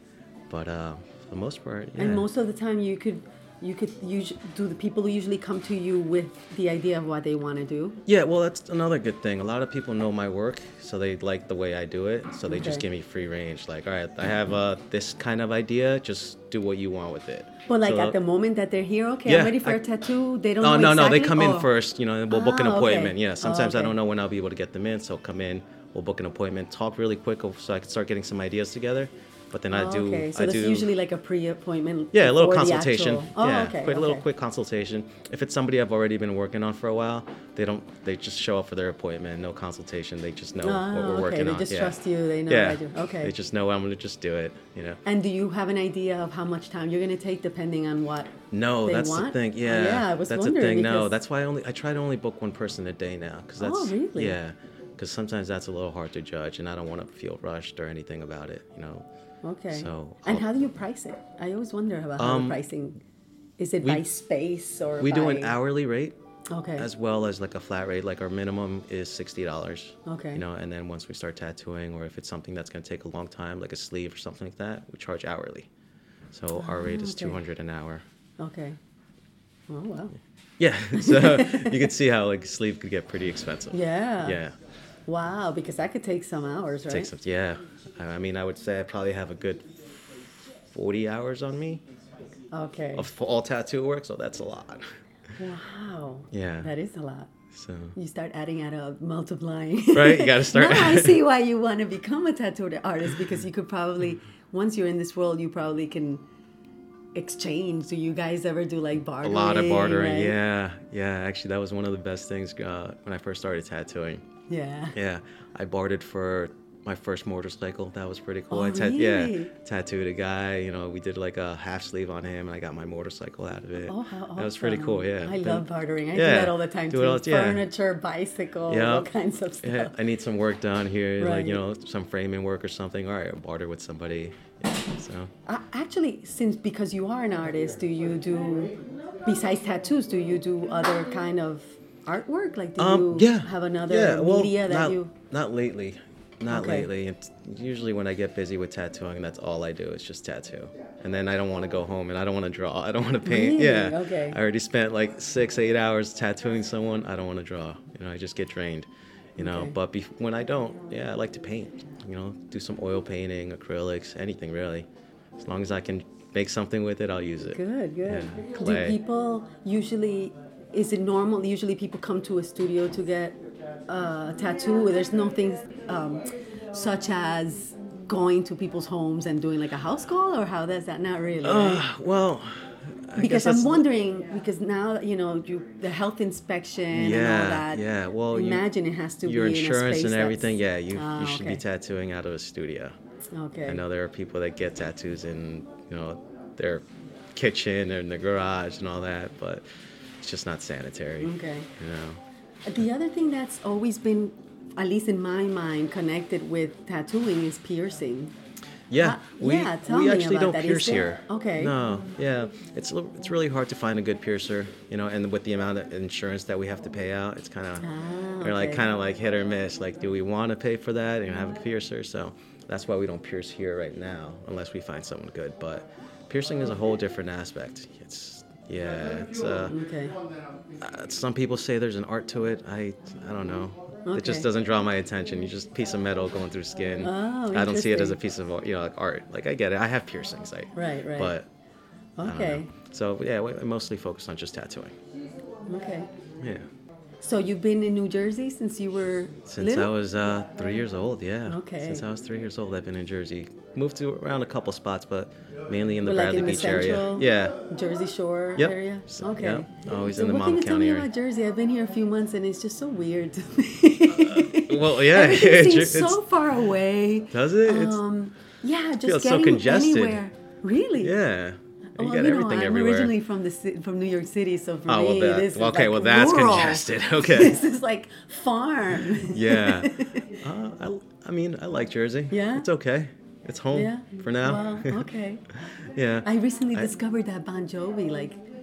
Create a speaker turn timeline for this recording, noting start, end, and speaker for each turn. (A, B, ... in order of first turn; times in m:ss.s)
0:00.5-0:02.3 A
0:02.0-0:08.0 B
0:08.1-0:18.2 A
0:12.5-0:12.8 B
0:17.7-0:21.7 B
0:19.3-0:19.8 A
0:20.6-0:30.9 A
0:22.3-0:24.0 B
0:29.7-0:34.2 B
0:32.1-0:45.0 A
0:40.6-0:43.3 B
0:45.0-0:51.1 B
0:48.5-0:59.1 A
0:53.6-0:54.4 B
0:59.4-1:03.0 B
0:59.7-1:00.5 A
1:02.2-1:02.6 A
1:03.6-1:05.6 B
1:05.0-1:06.2 A
1:06.5-1:06.9 B
1:06.8-1:15.7 A
1:10.1-1:10.4 B
1:16.3-1:18.0 A
1:16.5-1:17.4 B
1:18.4-1:18.8 B
1:19.7-1:20.2 B
1:20.6-1:24.5 A
1:20.9-1:21.9 B
1:23.7-1:24.4 B
1:25.1-1:27.1 B
1:26.9-1:29.7 A
1:30.7-1:31.8 A
1:32.5-1:33.1 B
1:33.0-1:34.8 A
1:35.4-1:37.3 B
1:36.3-1:36.7 A
1:37.5-1:38.0 A
1:38.0-1:46.2 B
1:39.9-1:41.2 A
1:47.2-1:50.4 B
1:49.2-1:54.2 A
1:54.5-1:55.0 B
1:54.9-2:07.7 A
1:58.5-1:59.5 B
2:03.8-2:10.0 B
2:08.7-2:09.1 A
2:09.6-2:15.3 A
2:11.2-2:11.6 B
2:15.5-2:18.7 B
2:19.2-2:25.1 B
2:22.8-2:49.0 A
2:26.5-2:26.9 B
2:33.2-2:34.4 B
2:39.4-2:39.8 B
2:47.4-3:01.8 B
3:01.4-3:03.9 A
3:03.2-3:11.6 B
3:06.9-3:08.7 A
3:09.2-3:12.9 A
3:13.3-3:13.8 B
3:13.7-3:19.6 A
3:20.2-3:22.2 A
3:21.2-3:21.7 B
3:22.7-3:28.3 B
3:28.9-3:49.8 A
3:29.0-3:31.7 B
3:37.8-3:38.8 B
3:49.6-3:50.2 B
3:50.8-4:01.5 A
3:54.0-3:54.5 B
3:57.0-3:58.2 B
4:00.8-4:01.4 B
4:02.2-4:02.7 B
4:02.2-4:04.9 A
4:05.7-4:06.1 B
4:06.4-4:06.7 A
4:07.2-4:09.9 B
4:09.5-4:17.6 A
4:11.5-4:12.0 B
4:16.0-4:31.2 B
4:18.6-4:21.1 A
4:24.1-4:26.2 A
4:27.3-4:28.0 A
4:29.0-4:30.2 A
4:31.0-4:33.2 A
4:31.9-4:40.3 B
4:34.9-4:37.6 A
4:39.0-4:45.1 A
4:42.3-4:42.7 B
4:43.7-4:45.4 B
4:45.8-4:46.9 A
4:46.2-4:48.4 B